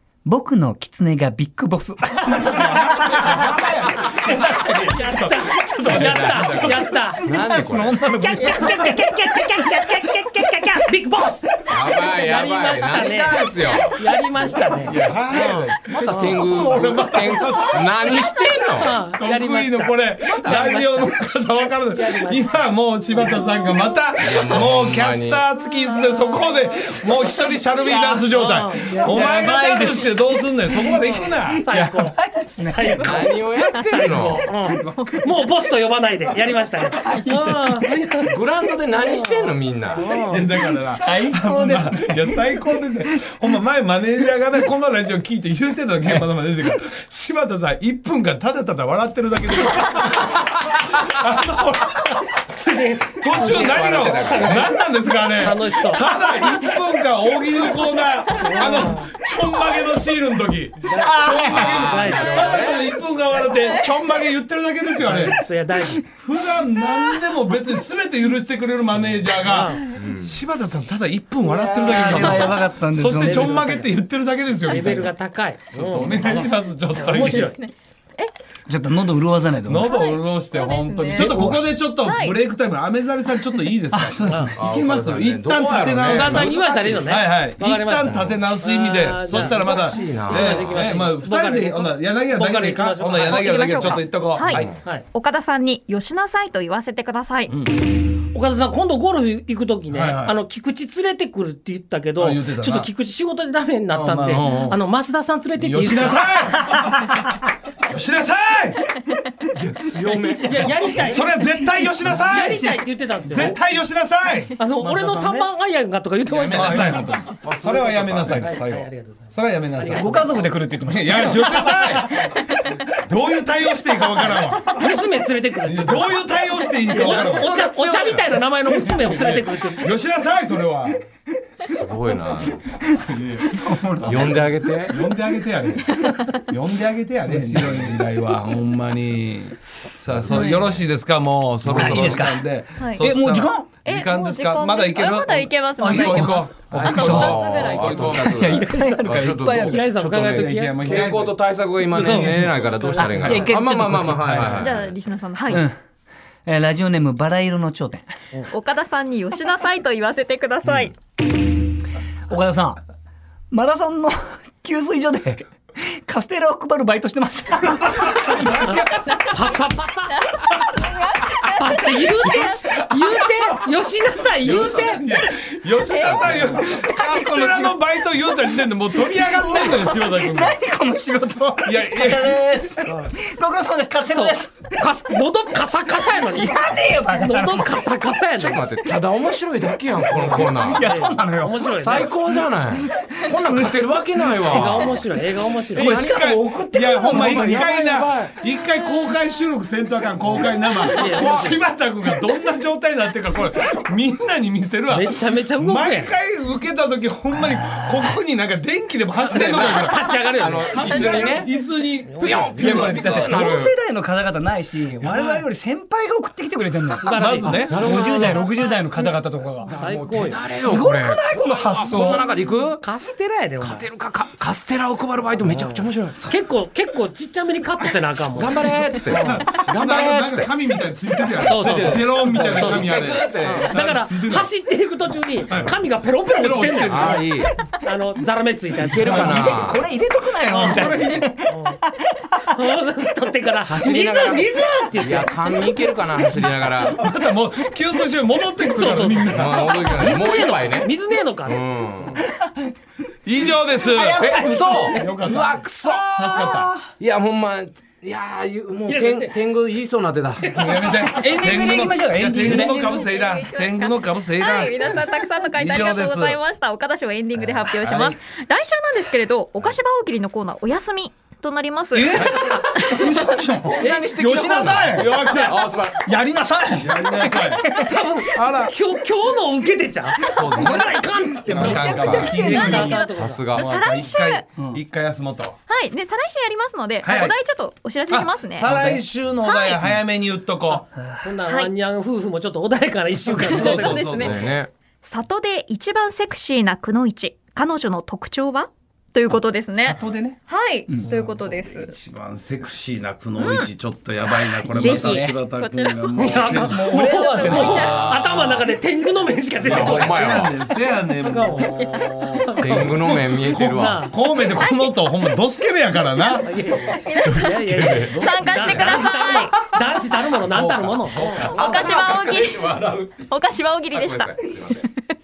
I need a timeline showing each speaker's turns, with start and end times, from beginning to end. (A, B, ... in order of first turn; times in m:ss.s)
0:00.2-0:10.8 A
0:02.4-0:06.8 B
0:04.5-0:07.2 C
0:05.9-0:08.1 D
0:08.2-0:16.5 C
0:11.7-0:14.1 D
0:14.8-0:18.3 B
0:15.3-0:19.0 D
0:18.7-0:21.2 C
0:19.1-0:31.6 B
0:20.3-0:20.9 D
0:21.9-0:22.6 C
0:23.2-0:23.8 C
0:24.2-0:25.5 D
0:26.0-0:26.9 C
0:27.8-0:28.3 A
0:28.1-0:29.6 C
0:28.9-0:33.2 A
0:31.1-0:38.4 C
0:33.0-0:34.4 D
0:34.8-0:35.2 A
0:36.9-0:37.9 A
0:38.3-0:40.0 D
0:39.0-0:40.4 C
0:40.1-0:43.3 A
0:40.3-0:52.4 B
0:52.4-0:56.0 C
0:53.2-1:05.4 B
0:53.3-0:54.7 D
0:58.4-0:59.1 C
1:00.8-1:02.8 C
1:00.9-1:02.0 A
1:01.4-1:02.9 D
1:05.0-1:06.0 C
1:06.1-1:15.1 B
1:09.4-1:09.9 C
1:09.9-1:10.4 D
1:11.4-1:13.6 A
1:13.1-1:13.9 C
1:14.7-1:16.3 C
1:15.7-1:17.5 B
1:16.0-1:16.5 A
1:17.0-1:18.3 E
1:17.0-1:17.6 C
1:18.7-1:19.9 A
1:19.6-1:34.8 B
1:19.8-1:21.2 E
1:21.1-1:21.7 A
1:22.0-1:22.4 E
1:23.9-1:24.5 A
1:24.6-1:27.3 D
1:26.0-1:33.9 C
1:28.0-1:28.5 D
1:29.3-1:31.0 D
1:33.2-1:37.6 E
1:34.4-1:34.8 D
1:34.8-1:35.0 C
1:37.5-1:37.9 B
1:38.3-1:46.4 C
1:39.9-1:40.4 B
1:42.2-1:42.9 B
1:43.9-1:44.8 B
1:45.6-1:47.1 B
1:47.9-1:48.9 B
1:49.5-1:54.6 B
1:50.0-1:51.0 D
1:50.4-1:53.6 C
1:53.3-1:53.6 D
1:54.6-1:57.1 C
1:54.8-1:55.5 A
1:56.3-2:02.2 B
1:56.5-1:56.9 D
1:56.6-1:57.1 A
1:57.4-1:58.7 D
1:58.3-2:00.6 C
1:59.9-2:02.5 A
2:02.9-2:04.9 B
2:04.8-2:09.9 C
2:05.6-2:07.6 B
2:07.0-2:08.3 D
2:08.1-2:11.0 B
2:11.7-2:12.6 D
2:12.8-2:14.4 A
2:13.1-2:13.5 B
2:14.0-2:14.3 B
2:14.0-2:15.0 D
2:14.8-2:16.0 B
2:16.0-2:16.4 E
2:16.5-2:28.5 B
2:20.1-2:20.9 D
2:21.6-2:22.4 A
2:22.8-2:28.3 E
2:23.0-2:23.7 A
2:25.8-2:27.5 A
2:26.9-2:35.0 D
2:28.2-2:29.9 A
2:29.4-2:30.9 C
2:30.0-2:31.4 B
2:31.9-2:33.2 C
2:31.9-2:32.4 A
2:33.0-2:34.7 A
2:33.2-2:33.6 B
2:34.3-2:34.6 B
2:34.6-2:35.6 E
2:35.5-2:35.7 A
2:36.4-2:38.1 A
2:38.5-2:40.9 E
2:40.6-2:40.9 D
2:42.3-2:42.8 A
2:43.5-2:49.0 A
2:48.1-2:49.5 B
2:48.7-2:50.2 C
2:50.1-2:52.6 E
2:51.5-2:55.0 C
2:54.4-3:00.5 B
2:55.9-2:56.2 E
2:56.0-2:57.8 A
2:59.2-3:04.7 A
3:01.6-3:02.4 B
3:02.8-3:03.1 C
3:04.0-3:06.5 C
3:06.2-3:07.8 A
3:07.1-3:08.6 C
3:08.4-3:11.0 D
3:10.1-3:11.7 A
3:10.2-3:12.1 C
3:11.8-3:15.2 D
3:12.7-3:14.9 A
3:14.4-3:15.9 C
3:15.7-3:16.3 D
3:15.8-3:30.0 B
3:15.8-3:18.0 A
3:17.0-3:18.3 D
3:20.8-3:21.6 C
3:24.9-3:26.2 C
3:29.2-3:31.4 C
3:29.3-3:31.5 D
3:30.7-3:33.1 B
3:32.1-3:32.6 C
3:32.1-3:33.7 D
3:32.6-3:39.9 A
3:35.0-3:35.4 B
3:37.0-3:37.6 C
3:37.1-3:37.7 B
3:37.4-3:38.5 D
3:39.7-3:42.8 D
3:39.7-3:40.4 C
3:40.5-3:42.3 A
3:42.8-3:43.9 C
3:43.6-3:46.3 D
3:45.4-3:49.5 C
3:48.2-3:50.5 D
3:49.2-3:54.5 B
3:51.4-3:57.3 C
3:51.6-3:53.8 D
3:52.2-3:52.7 A
3:55.5-3:55.8 B
3:56.3-3:57.2 B
3:56.7-3:57.5 D
3:57.8-3:59.6 C
3:58.8-3:59.9 D
3:58.8-4:02.4 A
4:00.5-4:01.4 B
4:01.5-4:01.8 C
4:02.5-4:05.6 C
4:03.8-4:07.0 D
4:06.9-4:09.9 B
4:08.7-4:12.2 C
4:09.2-4:10.9 D
4:11.4-4:12.2 D
4:12.2-4:12.5 A
4:13.2-4:16.7 B
4:13.7-4:15.2 A
4:14.2-4:20.5 D
4:16.2-4:16.7 A
4:18.8-4:19.3 C
4:20.4-4:21.0 C
4:20.5-4:26.4 B
4:21.0-4:23.1 A
4:22.9-4:33.1 E
4:27.8-4:28.2 B
4:31.9-4:35.3 A
4:32.2-4:32.9 D
4:33.7-4:36.0 D
4:33.8-4:34.2 C
4:34.9-4:35.7 B
4:36.0-4:38.0 A
4:36.8-4:37.7 B
4:37.7-4:43.5 C
4:38.3-4:38.7 B
4:40.3-4:43.0 A
4:40.3-4:43.0 B
4:41.7-4:43.7 D
4:42.9-4:44.5 E
4:43.6-4:45.6 B
4:45.7-4:48.7 E
4:47.0-4:47.4 B
4:48.1-4:50.9 B
4:48.7-4:49.0 C
4:49.4-4:49.8 E
4:50.7-4:54.1 C
4:53.3-4:54.6 B
4:53.6-4:54.4 E
4:53.6-4:54.7 D
4:55.0-5:01.9 E
4:59.9-5:00.4 B
5:01.0-5:07.0 B
5:03.3-5:03.7 E
5:04.4-5:06.4 E
5:04.7-5:05.4 A
5:06.2-5:10.4 C
5:06.4-5:08.0 A
5:07.2-5:08.0 E
5:07.7-5:08.7 D
5:09.6-5:10.7 D
5:09.6-5:11.8 B
5:11.2-5:14.1 C
5:12.6-5:14.1 D
5:12.6-5:18.6 B
5:14.5-5:15.4 E
5:16.4-5:21.6 C
5:17.0-5:19.8 E
5:17.8-5:19.0 D
5:20.4-5:21.6 B
5:20.7-5:24.8 D
5:21.4-5:22.6 E
5:23.3-5:24.4 E